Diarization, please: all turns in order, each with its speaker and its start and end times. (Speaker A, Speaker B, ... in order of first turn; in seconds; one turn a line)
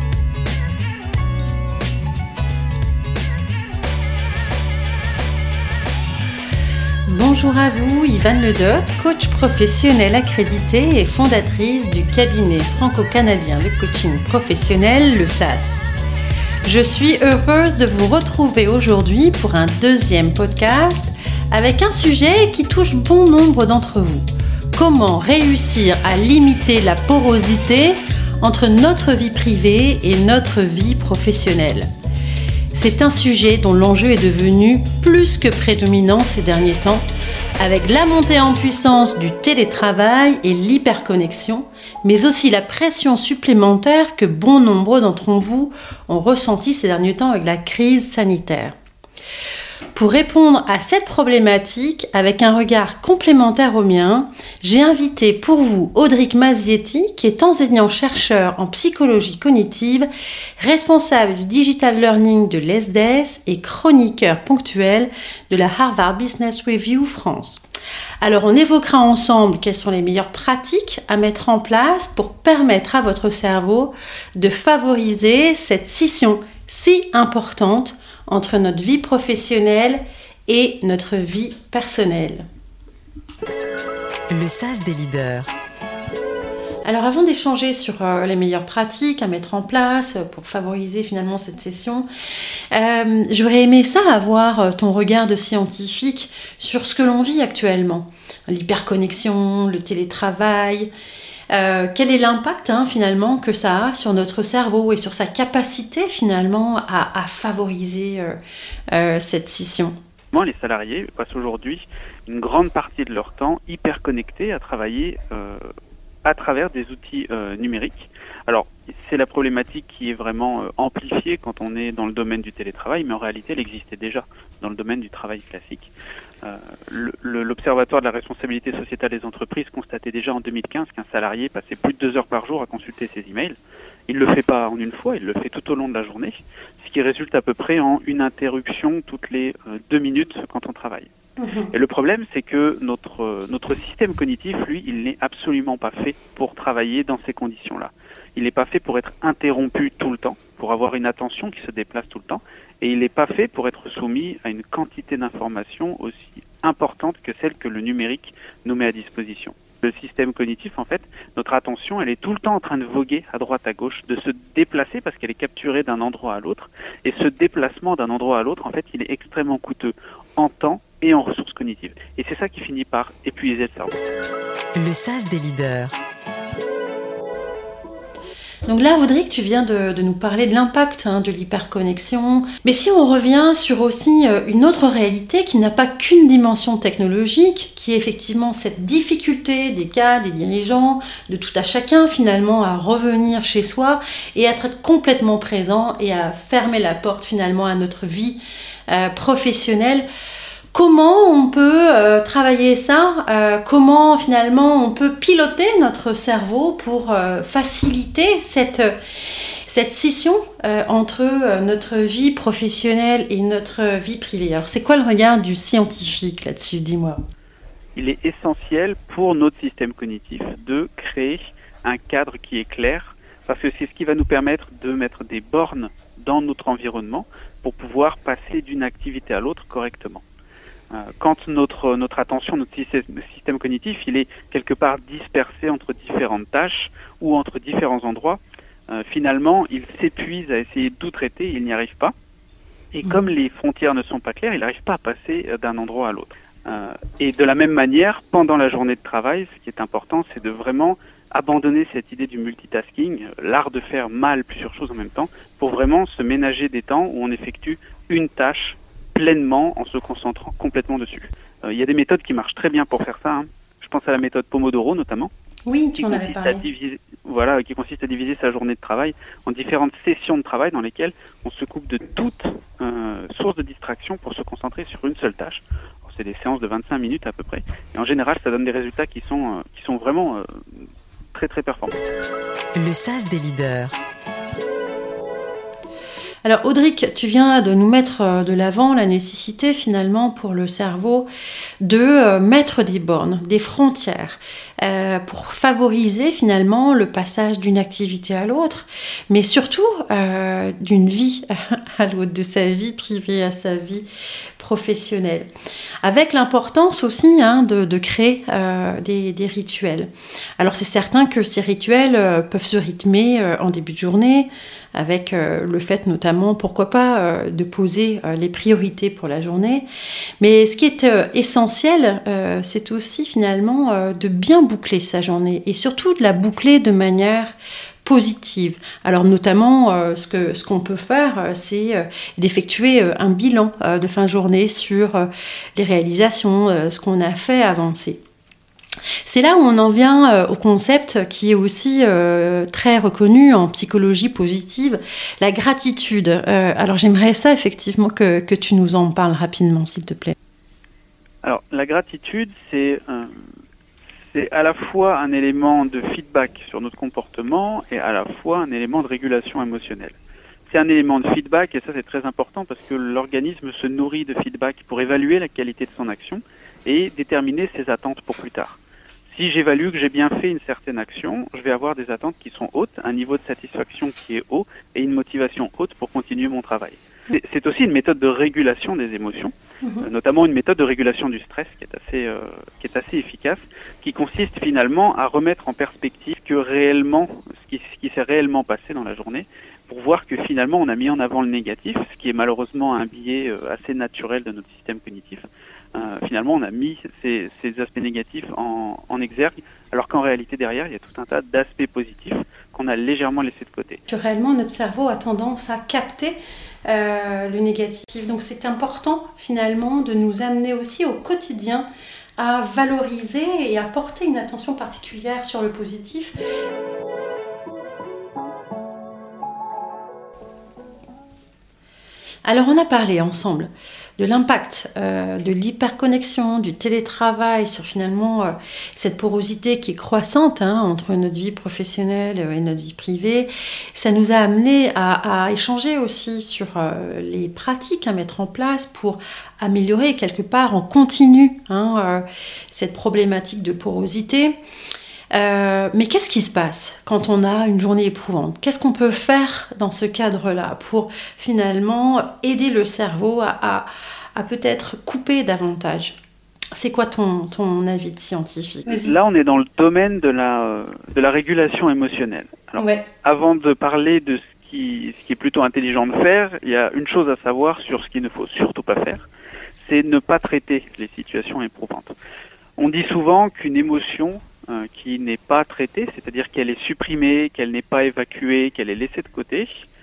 Speaker A: 7.0-15.9
Speaker A: 16.6-31.9
Speaker A: 32.7-37.0
Speaker A: 37.6-48.7
Speaker A: 49.9-60.1
Speaker A: 60.6-67.6
Speaker A: 68.2-82.4
Speaker B: 84.3-85.5
Speaker A: 86.8-92.1
Speaker A: 92.7-100.9
Speaker A: 101.5-108.4
Speaker A: 108.9-109.9
Speaker C: 110.3-115.6
Speaker C: 116.2-125.9
Speaker C: 126.4-133.6
Speaker C: 134.1-141.1
Speaker A: 141.4-141.7
Speaker C: 141.7-174.1
Speaker B: 174.7-175.9
Speaker A: 178.7-200.1
Speaker A: 200.7-208.9
Speaker A: 209.7-217.2
Speaker C: 217.9-230.2
Speaker C: 230.9-242.1
Speaker C: 242.9-265.3
Speaker A: 265.6-266.6
Speaker C: 265.9-282.0
Speaker B: 282.7-283.9
Speaker A: 286.4-291.3
Speaker A: 291.8-304.1
Speaker A: 304.6-305.5
Speaker A: 306.0-319.9
Speaker A: 320.4-338.2
Speaker A: 339.2-350.3
Speaker C: 351.4-353.3
Speaker C: 354.3-404.0
Speaker A: 404.1-416.4
Speaker A: 422.4-444.6
Speaker A: 445.3-456.2
Speaker A: 456.7-459.2
Speaker C: 458.9-469.3
Speaker A: 462.8-463.0
Speaker C: 469.8-472.1
Speaker C: 472.8-479.7